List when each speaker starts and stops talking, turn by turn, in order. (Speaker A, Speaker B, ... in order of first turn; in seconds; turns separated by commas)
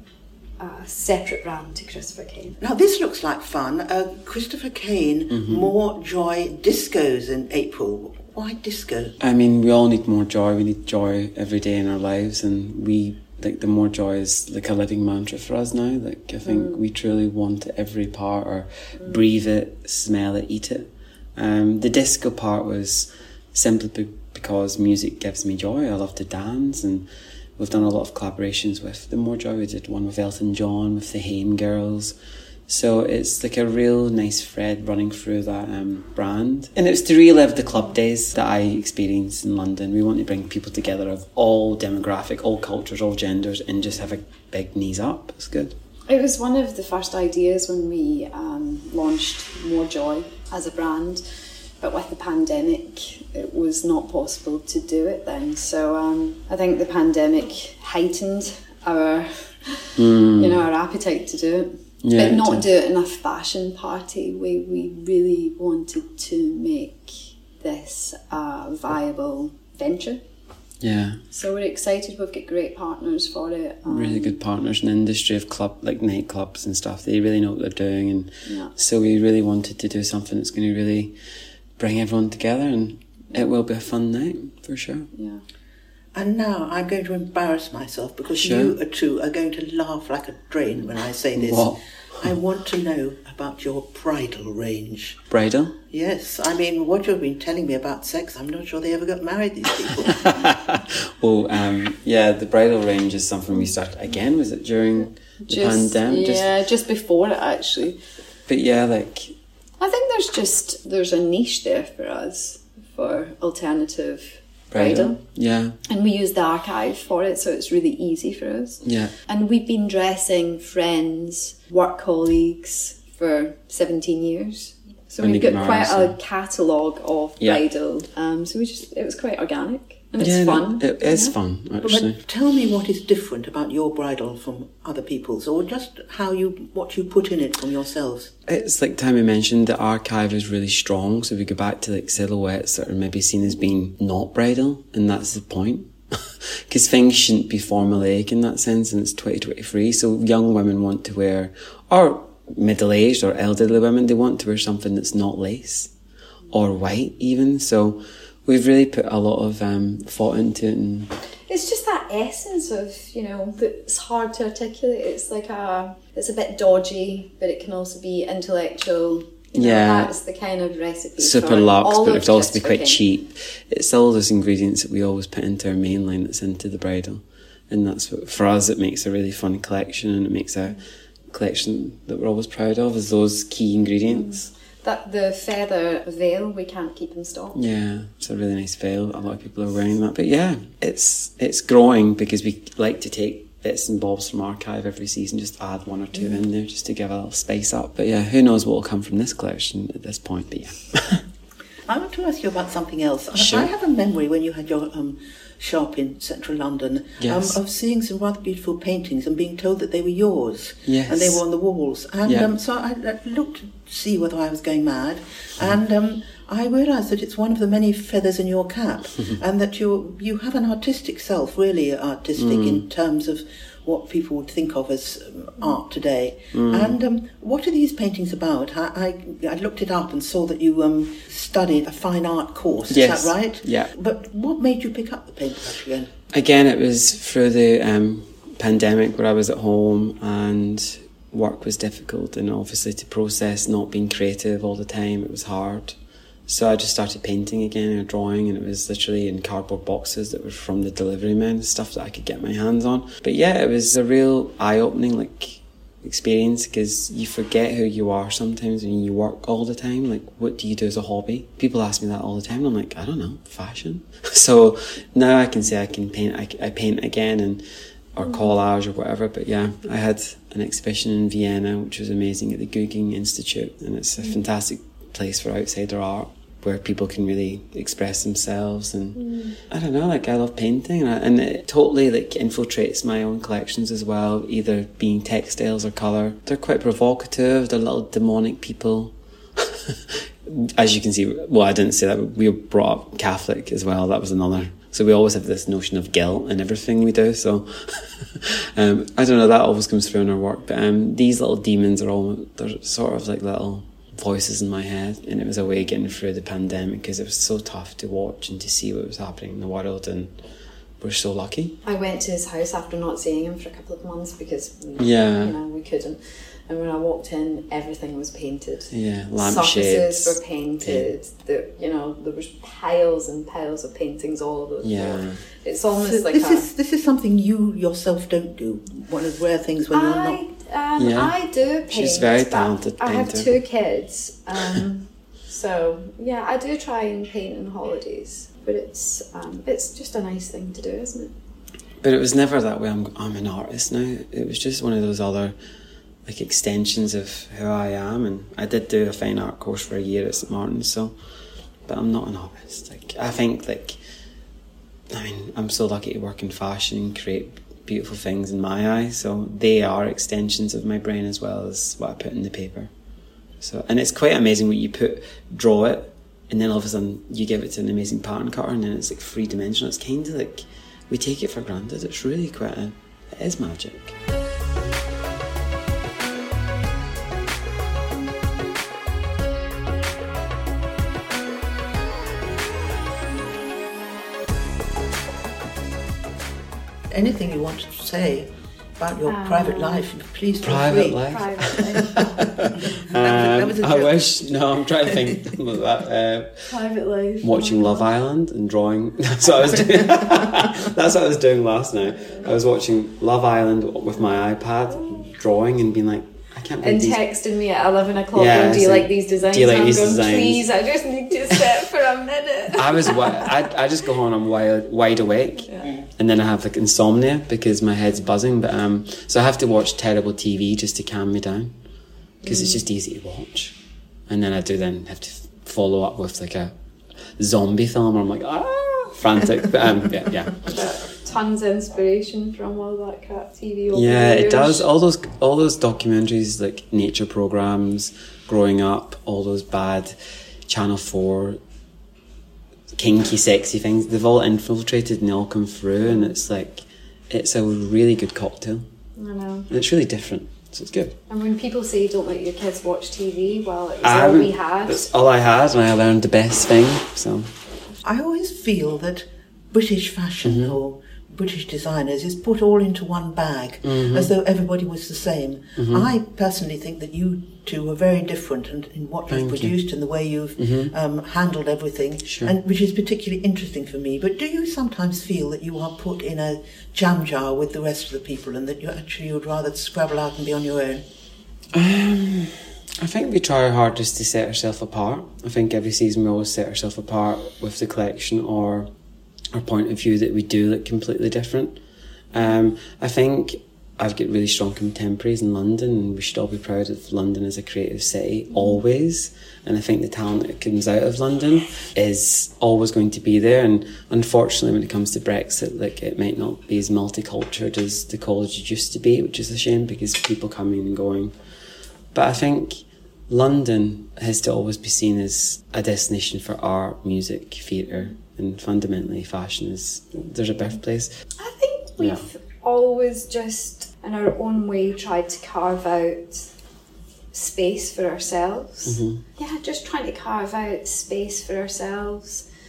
Speaker A: 0.6-2.6, Speaker B: 2.6-9.2, Speaker C: 5.3-5.7, Speaker C: 9.2-32.1, Speaker A: 16.4-16.8, Speaker C: 32.7-45.7, Speaker A: 46.1-70.2, Speaker C: 60.0-60.6, Speaker C: 62.0-62.6, Speaker C: 70.8-71.2, Speaker A: 71.3-74.4, Speaker C: 73.9-81.1, Speaker A: 78.5-78.7, Speaker C: 81.8-85.1, Speaker A: 85.1-85.4, Speaker B: 86.1-95.2, Speaker C: 88.4-88.7, Speaker C: 91.3-92.3, Speaker C: 95.3-95.7, Speaker B: 95.9-100.3, Speaker C: 100.0-106.5, Speaker A: 105.4-108.0, Speaker C: 108.5-109.3, Speaker A: 109.8-115.2, Speaker C: 114.7-115.8, Speaker A: 115.8-131.3, Speaker C: 118.8-119.1, Speaker C: 125.2-126.1, Speaker C: 130.2-132.2, Speaker B: 131.8-138.3, Speaker C: 138.5-155.9, Speaker C: 156.5-161.1, Speaker A: 161.5-173.0, Speaker C: 169.5-170.1, Speaker C: 171.2-180.8, Speaker C: 181.3-184.5, Speaker A: 184.1-187.6, Speaker C: 187.5-201.2, Speaker B: 201.9-236.1, Speaker C: 203.3-203.7, Speaker C: 207.2-207.6, Speaker C: 210.9-211.4, Speaker C: 212.2-212.5, Speaker C: 222.4-222.8, Speaker C: 226.5-226.9, Speaker C: 232.9-233.9, Speaker C: 236.3-310.3, Speaker A: 279.1-279.6, Speaker C: 311.0-311.8, Speaker A: 311.8-326.7, Speaker C: 315.0-315.6, Speaker C: 318.9-321.1, Speaker C: 324.8-325.4, Speaker B: 326.0-330.4, Speaker A: 329.9-341.3, Speaker C: 331.0-331.4, Speaker C: 331.9-333.5, Speaker C: 342.0-345.6, Speaker C: 346.2-351.1, Speaker C: 351.9-354.0, Speaker C: 355.1-362.9, Speaker C: 363.6-374.1, Speaker B: 387.1-391.2, Speaker A: 389.2-390.1, Speaker C: 390.6-396.8, Speaker A: 391.0-392.9, Speaker B: 392.8-394.2, Speaker B: 395.1-395.4, Speaker A: 396.7-398.1, Speaker C: 397.4-407.2, Speaker A: 405.0-405.3, Speaker A: 406.8-413.5, Speaker C: 408.3-410.6, Speaker C: 412.7-421.7, Speaker A: 415.6-415.9, Speaker A: 422.4-422.8, Speaker C: 422.4-423.8, Speaker C: 424.3-426.7, Speaker C: 427.4-430.8, Speaker A: 430.6-434.9, Speaker C: 433.9-441.6, Speaker C: 442.9-448.9, Speaker A: 449.1-449.7, Speaker C: 449.7-451.2, Speaker A: 451.3-455.1, Speaker C: 454.0-457.5, Speaker B: 458.0-481.0, Speaker C: 460.4-460.8, Speaker C: 463.8-464.3, Speaker C: 465.8-466.1, Speaker C: 469.3-469.7, Speaker C: 470.6-470.9, Speaker C: 472.3-472.5, Speaker C: 481.7-488.9, Speaker C: 489.5-491.8, Speaker C: 492.3-511.3, Speaker C: 512.1-521.1, Speaker A: 521.4-526.5, Speaker C: 522.0-522.2, Speaker A: 527.3-532.5, Speaker C: 528.8-529.2